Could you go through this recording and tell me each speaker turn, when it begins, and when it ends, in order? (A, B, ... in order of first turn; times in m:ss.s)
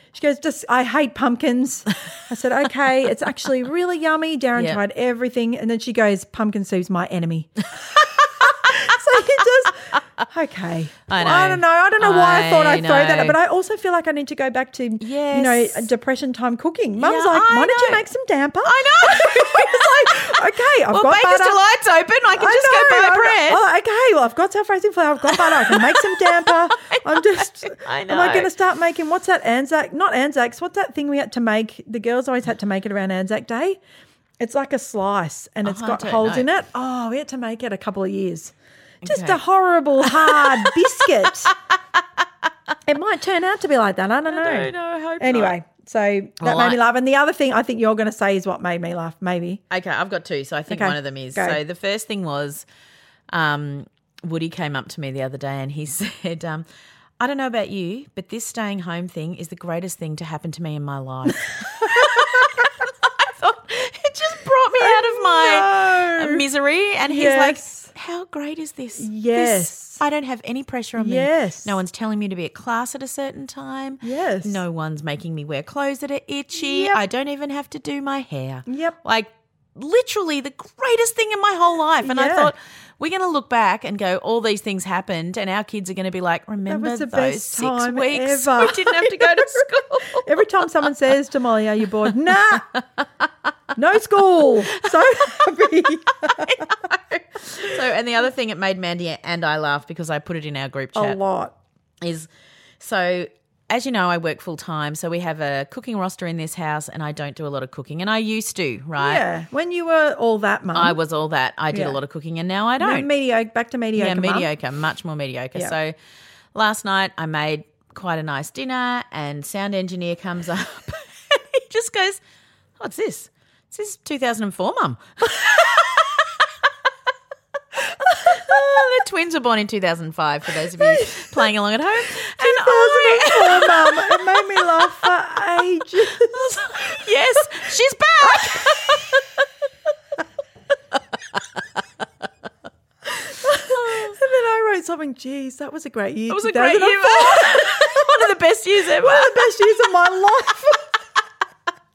0:00.1-0:07.6 A
0:04.6-0:04.8 B
0:08.4-0:21.6 A
0:11.1-0:13.4 B
0:15.0-0:15.9 B
0:17.0-0:18.1 B
0:18.6-0:23.6 B
0:22.3-0:33.8 A
0:25.3-0:28.5 B
0:34.4-0:38.5 A
0:35.6-0:36.5 B
0:39.0-0:39.4 B
0:39.0-0:41.5 A
0:40.0-0:40.7 B
0:41.2-0:41.5 B
0:42.8-0:49.6 A
0:44.3-0:45.6 B
0:46.4-0:46.8 B
0:49.7-0:52.6 B
0:50.7-0:51.6 A
0:53.3-0:56.6 B
0:57.2-1:30.4 B
1:01.6-1:02.4 A
1:04.8-1:06.4 A
1:07.0-1:07.9 A
1:09.0-1:10.0 A
1:11.0-1:11.8 A
1:14.0-1:14.6 A
1:16.5-1:17.0 A
1:18.6-1:19.0 A
1:22.0-1:22.5 A
1:26.6-1:32.8 A
1:33.7-1:36.7 A
1:34.4-1:35.4 B
1:36.2-1:41.2 B
1:40.9-1:41.5 A
1:42.0-1:49.2 B
1:49.0-1:51.0 A
1:50.7-1:53.1 B
1:51.7-1:52.0 A
1:52.8-1:54.5 A
1:54.0-1:56.0 B
1:56.5-2:02.2 B
2:02.8-2:06.1 B
2:08.0-2:15.1 B
2:10.8-2:11.3 A
2:12.3-2:17.0 A
2:16.0-2:19.4 B
2:18.2-2:19.1 A
2:21.3-2:21.6 B
2:23.2-2:28.2 A
2:23.7-2:24.2 B
2:26.3-2:29.6 B
2:28.9-2:31.0 A